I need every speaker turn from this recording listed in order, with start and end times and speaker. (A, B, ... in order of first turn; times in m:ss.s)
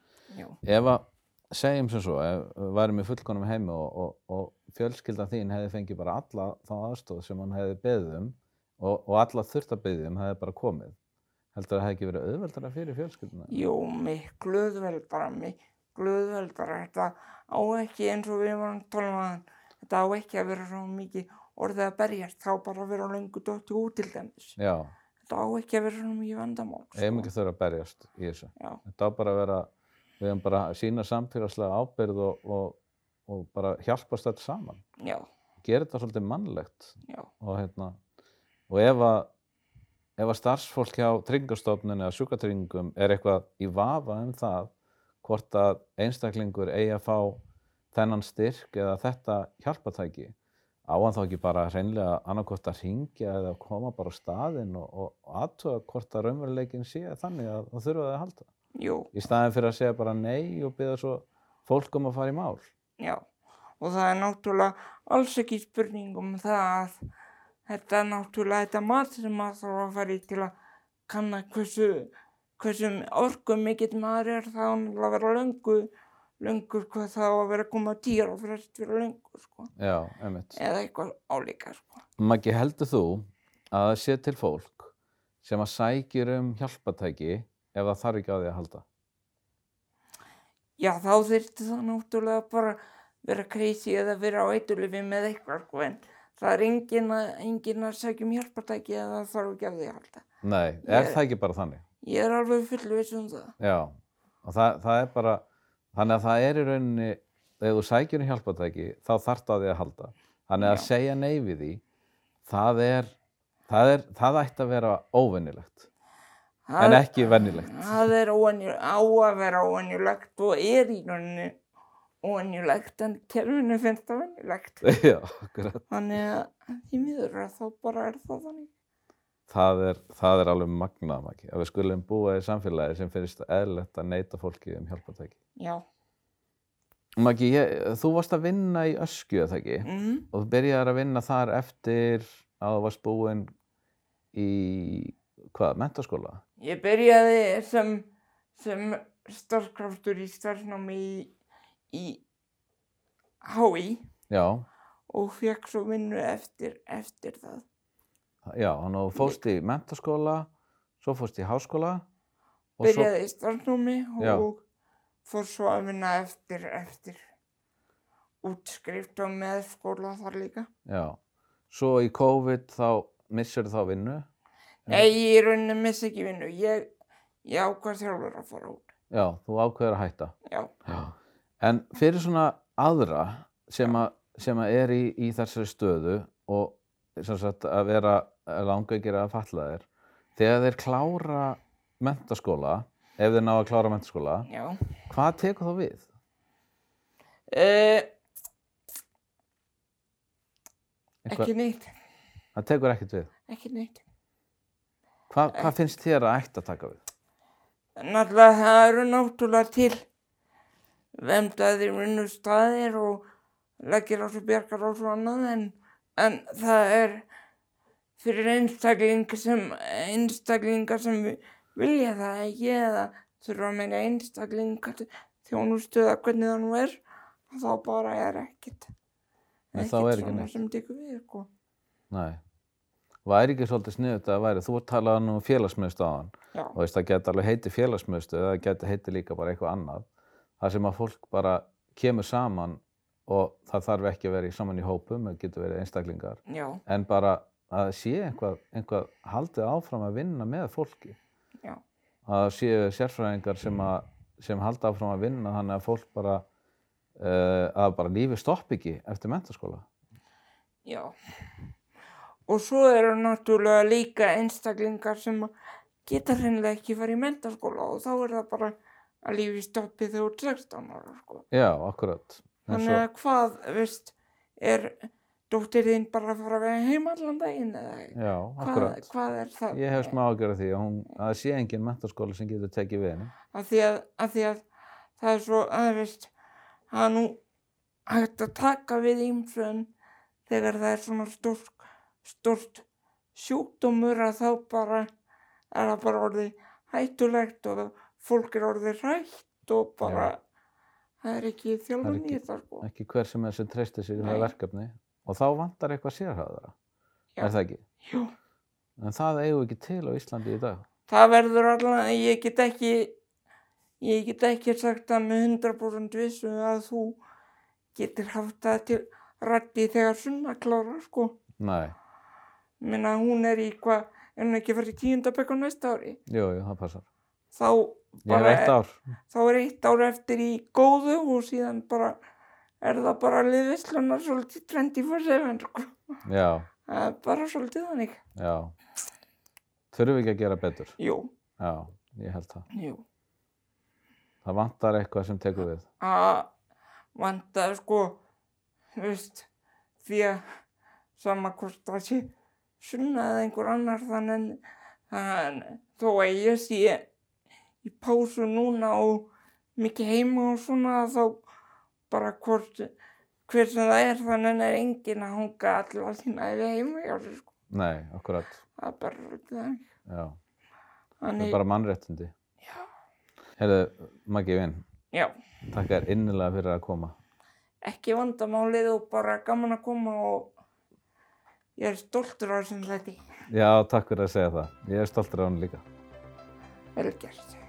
0:00.3-0:00.6 A
0:00.6-0:11.0 B
0:11.5-0:13.6 B
0:13.5-0:24.6 A
0:24.6-0:24.9 B
0:25.2-0:27.3 A
0:27.0-0:34.8 B
0:35.0-0:35.2 A
0:35.6-0:38.0 B
0:38.7-0:39.3 B
0:40.2-0:44.7 B
0:45.2-0:47.4 B
0:47.9-0:50.3 B
0:50.9-0:58.5 B
0:58.7-0:59.1 A
0:59.1-1:02.7 B
1:03.0-1:03.2 A
1:03.8-1:06.9 A
1:07.7-1:10.5 A
1:11.1-1:15.9 A
1:16.4-1:19.7 A
1:19.8-1:20.6 B
1:20.6-1:22.0 A
1:22.2-1:24.9 B
1:25.4-1:28.8 B
1:30.8-1:40.2 A
1:40.4-1:41.8 B
1:40.8-1:41.2 A
1:42.0-1:43.5 A
1:43.6-1:45.4 B
1:45.9-1:51.8 B
1:50.6-1:50.9 A
1:52.4-1:53.1 B
1:53.7-1:55.9 B
1:56.7-2:01.6 A
1:56.8-1:58.0 B
2:02.2-2:04.8 A
2:04.8-2:05.8 B
2:05.9-2:08.7 A
2:09.5-2:15.4 B
2:15.6-2:15.8 A
2:17.2-2:23.5 B
2:19.8-2:20.3 A
2:24.3-2:26.4 B
2:26.6-2:31.3 A
2:31.9-2:32.2 A
2:33.4-2:34.1 A
2:34.3-2:34.6 B
2:35.1-2:37.6 A
2:38.4-2:40.5 B
2:41.0-2:42.0 B
2:42.8-2:43.1 B
2:42.8-2:44.6 A
2:44.2-2:44.5 B
2:45.2-2:47.2 A
2:48.4-2:50.7 A
2:50.8-2:51.2 B
2:51.7-2:54.2 B
2:54.9-2:56.9 A
2:57.4-2:58.9 A
2:59.1-3:00.3 B
3:00.4-3:00.7 A
3:00.8-3:14.5 B
3:14.5-3:14.8 A
3:15.1-3:16.0 B
3:17.5-3:18.1 A
3:21.2-3:21.5 B
3:21.3-3:21.9 A
3:22.5-3:23.3 B
3:23.5-3:24.0 A
3:25.3-3:27.0 B
3:28.0-3:30.0 A
3:31.2-3:33.2 A
3:33.8-3:37.2 A
3:38.2-3:48.9 A
3:49.7-3:51.5 A
3:49.7-3:50.5 B
3:52.1-3:52.4 B
3:53.2-4:00.0 B
4:00.6-4:11.2 B
4:06.5-4:06.8 A
4:12.2-4:16.4 B
4:17.2-4:19.8 B
4:20.8-4:21.1 A
4:22.5-4:25.5 A
4:26.0-4:31.4 A
4:31.5-4:33.0 B
4:32.7-4:40.2 A
4:38.1-4:39.1 B
4:39.7-4:43.3 B
4:43.5-4:44.6 A
4:45.2-4:46.3 A
4:46.9-4:47.4 A
4:48.1-4:49.9 A
4:50.5-4:52.8 A
4:53.3-4:55.1 A
4:55.7-5:00.4 A
5:00.0-5:00.3 B
5:01.2-5:02.8 A
5:02.0-5:06.7 B
5:04.2-5:04.5 A
5:07.4-5:08.3 A
5:07.4-5:07.8 B
5:09.0-5:10.8 B
5:11.1-5:13.2 A
5:14.0-5:17.2 A
5:17.9-5:21.4 A
5:21.6-5:22.0 B
5:22.8-5:26.2 A
5:26.3-5:27.0 B
5:27.5-5:28.7 A
5:28.2-5:29.0 B
5:29.3-5:32.2 A
5:32.8-5:36.0 A
5:36.2-5:36.7 B
5:36.9-5:38.2 A
5:38.3-5:38.7 B
5:39.9-5:41.0 B
5:41.0-5:41.3 A
5:41.6-5:42.6 B
5:42.7-5:43.0 A
5:44.4-5:45.8 B
5:46.0-5:46.5 A
5:47.1-5:48.2 A
5:49.0-5:49.5 A
5:50.0-5:50.4 A
5:51.2-5:57.1 A
5:57.8-6:01.4 A
6:02.1-6:02.9 A
6:03.5-6:07.5 A
6:07.7-6:08.6 B
6:08.8-6:09.9 A
6:10.0-6:10.4 B
6:11.2-6:11.6 A
6:11.4-6:12.3 B
6:13.6-6:14.8 B
6:15.7-6:17.1 B
6:17.8-6:20.5 A
6:21.8-6:23.2 A
6:23.5-6:25.8 B
6:27.0-6:27.6 A